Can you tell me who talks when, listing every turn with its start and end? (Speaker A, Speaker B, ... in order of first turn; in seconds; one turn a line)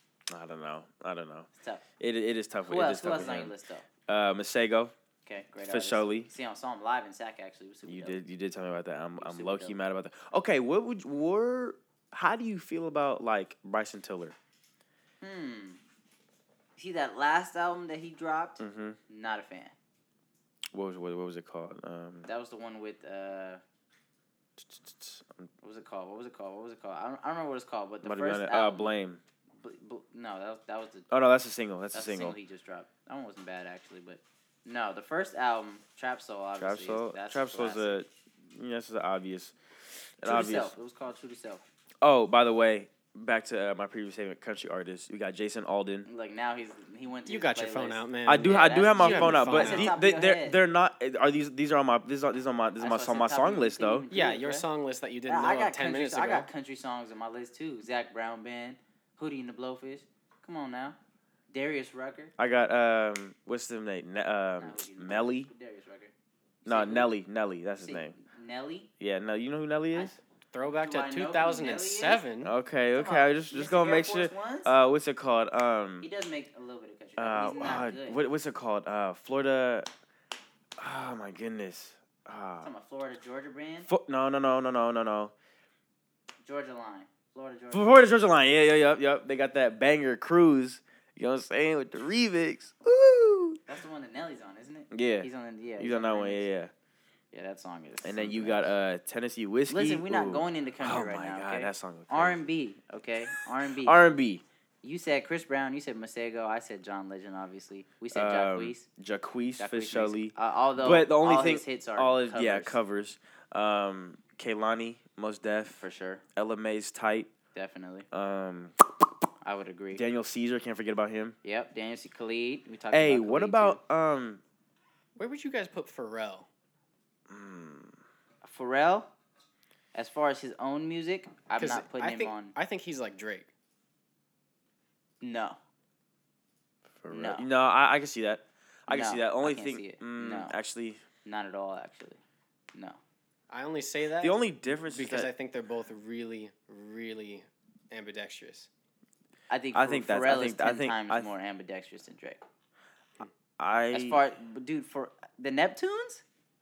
Speaker A: 0.3-3.5
Speaker B: 1.6-1.8
Speaker B: 2.7-3.9
Speaker A: 4.0-4.9
Speaker B: 5.2-8.2
Speaker A: 5.6-6.3
Speaker A: 7.8-14.3
Speaker B: 9.2-9.8
Speaker B: 15.2-15.8
Speaker B: 16.8-19.7
Speaker A: 18.6-19.0
Speaker A: 20.7-22.3
Speaker B: 22.2-23.6
Speaker A: 24.6-25.5
Speaker B: 25.6-28.9
Speaker A: 28.0-29.2
Speaker B: 29.6-31.1
Speaker A: 31.1-32.4
Speaker B: 31.9-38.0
Speaker A: 36.6-40.7
Speaker B: 40.2-41.7
Speaker A: 42.0-46.1
Speaker B: 46.0-50.6
Speaker C: 47.2-50.0
Speaker A: 48.2-54.1
Speaker B: 52.8-54.6
Speaker C: 54.1-56.5
Speaker B: 55.2-61.0
Speaker B: 61.5-62.3
Speaker A: 62.4-65.5
Speaker B: 64.6-66.1
Speaker B: 66.6-67.1
Speaker A: 66.7-68.2
Speaker B: 67.8-68.9
Speaker A: 69.0-70.2
Speaker C: 70.5-72.5
Speaker B: 70.7-72.2
Speaker A: 72.4-76.1
Speaker B: 72.9-74.7
Speaker B: 76.0-78.2
Speaker A: 77.2-79.9
Speaker A: 80.8-82.7
Speaker B: 82.6-83.9
Speaker A: 83.9-85.3
Speaker B: 86.4-87.9
Speaker A: 87.7-93.6
Speaker B: 93.7-96.5
Speaker A: 94.9-96.7
Speaker B: 97.3-98.7
Speaker A: 98.0-102.4
Speaker B: 99.7-104.0
Speaker A: 103.7-104.4
Speaker B: 104.8-108.8
Speaker A: 108.1-115.8
Speaker B: 109.6-112.8
Speaker B: 115.7-116.2
Speaker A: 116.3-117.3
Speaker B: 117.5-118.1
Speaker A: 118.1-119.1
Speaker B: 119.4-120.0
Speaker A: 119.9-121.4
Speaker B: 121.4-123.8
Speaker A: 122.9-124.4
Speaker C: 125.2-126.5
Speaker A: 127.3-128.0
Speaker B: 128.4-129.1
Speaker B: 129.9-132.5
Speaker C: 131.6-133.5
Speaker B: 135.2-135.6
Speaker A: 137.0-141.0
Speaker B: 137.1-137.5
Speaker B: 138.9-140.5
Speaker B: 141.2-142.2
Speaker B: 142.7-143.0
Speaker C: 143.5-148.7
Speaker A: 144.2-145.3
Speaker B: 149.5-152.4
Speaker A: 149.7-151.3
Speaker A: 153.6-154.2
Speaker B: 153.9-156.2